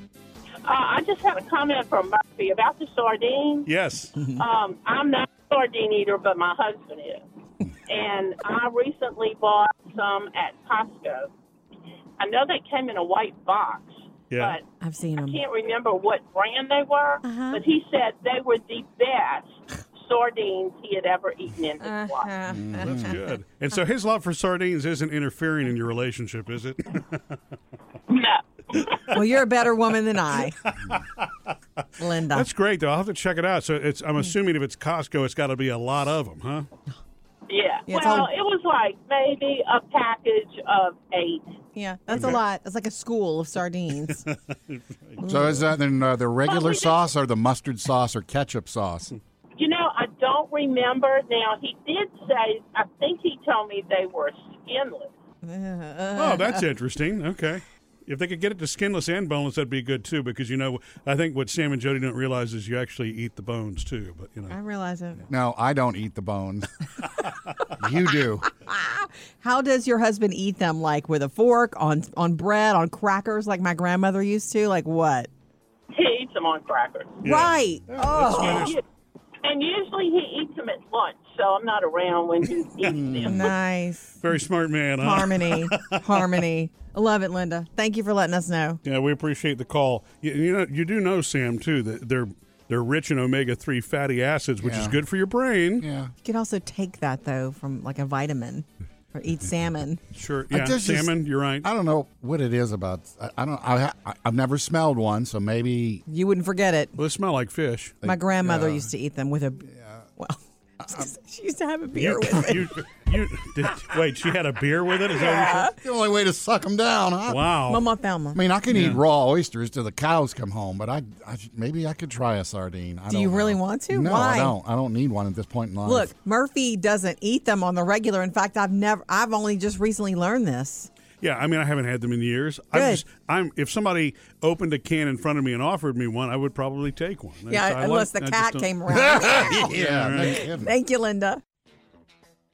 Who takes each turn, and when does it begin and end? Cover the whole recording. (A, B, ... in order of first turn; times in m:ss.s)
0:00.6-0:03.7 A
0:03.7-0:04.2 B
0:04.3-0:07.2 A
0:07.9-0:11.3 A
0:12.2-0:14.6 A
0:14.3-0:14.6 B
0:14.8-0:15.4 C
0:15.2-0:22.3 A
0:17.2-0:17.6 C
0:21.8-0:23.2 C
0:22.5-0:23.2 D
0:22.8-0:27.4 B
0:28.1-0:29.1 A
0:29.1-0:30.6 C
0:30.6-0:31.5 B
0:32.0-0:32.5 C
0:32.3-0:36.7 B
0:37.5-0:41.5 A
0:37.9-0:38.3 C
0:41.8-0:44.2 C
0:42.1-0:42.4 B
0:44.2-0:45.2 B
0:45.2-0:45.7 C
0:45.2-0:49.1 D
0:46.4-0:47.0 A
0:49.6-0:55.1 A
0:55.4-0:56.6 C
0:56.2-1:04.6 B
1:04.5-1:05.2 C
1:05.3-1:06.7 D
1:07.8-1:08.5 D
1:08.6-1:15.3 C
1:15.9-1:17.2 A
1:17.2-1:18.7 B
1:17.2-1:18.7 C
1:18.3-1:18.8 A
1:19.4-1:23.5 A
1:22.9-1:23.5 D
1:23.2-1:24.1 C
1:24.2-1:26.4 B
1:25.0-1:28.8 C
1:28.8-1:35.8 B
1:34.6-1:35.0 D
1:35.8-1:36.1 D
1:36.2-1:40.0 C
1:40.1-1:41.7 B
1:40.5-1:46.0 D
1:46.1-1:46.9 C
1:47.0-1:48.0 B
1:48.0-1:48.9 D
1:48.0-1:52.8 C
1:49.7-1:50.0 D
1:52.0-1:55.7 B
1:55.1-1:55.7 C
1:55.7-1:57.6 D
1:57.3-1:57.8 B
1:57.7-1:58.4 C
1:58.3-2:06.1 D
1:58.7-1:59.0 B
2:03.1-2:04.5 C
2:05.8-2:10.9 C
2:11.2-2:20.4 B
2:12.7-2:13.0 C
2:17.5-2:21.4 C
2:18.9-2:20.7 D